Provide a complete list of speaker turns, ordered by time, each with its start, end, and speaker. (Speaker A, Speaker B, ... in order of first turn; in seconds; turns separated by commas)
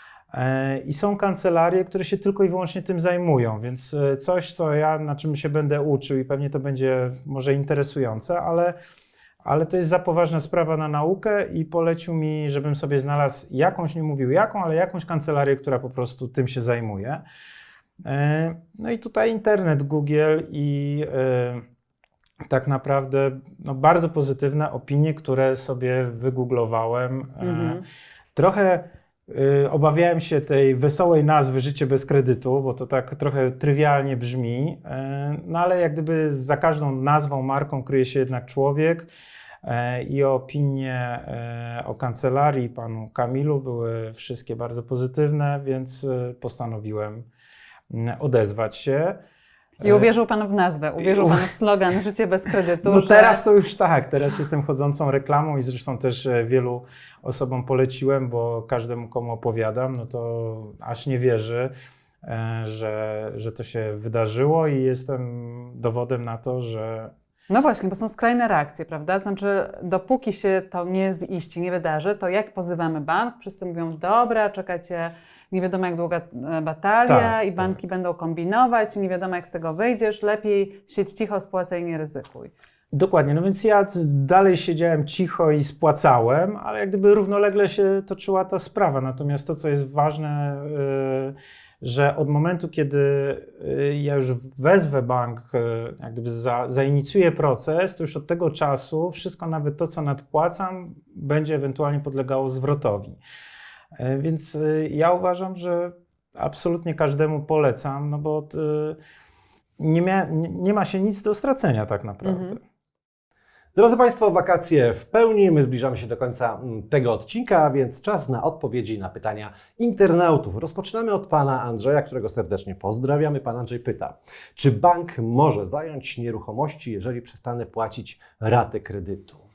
Speaker A: 0.3-8.8, Speaker A: 9.4-17.2, Speaker A: 18.1-21.6, Speaker A: 22.5-27.8, Speaker B: 27.4-27.8, Speaker A: 28.4-39.1, Speaker A: 39.6-47.2, Speaker A: 47.9-49.2, Speaker A: 49.8-50.1, Speaker B: 49.8-53.4, Speaker A: 51.0-51.5, Speaker A: 52.8-61.7, Speaker A: 62.2-67.1, Speaker B: 67.5-82.5, Speaker A: 77.1-77.7, Speaker A: 82.9-103.2, Speaker A: 104.0-109.0, Speaker A: 109.8-112.6, Speaker B: 112.2-112.6, Speaker C: 113.8-129.4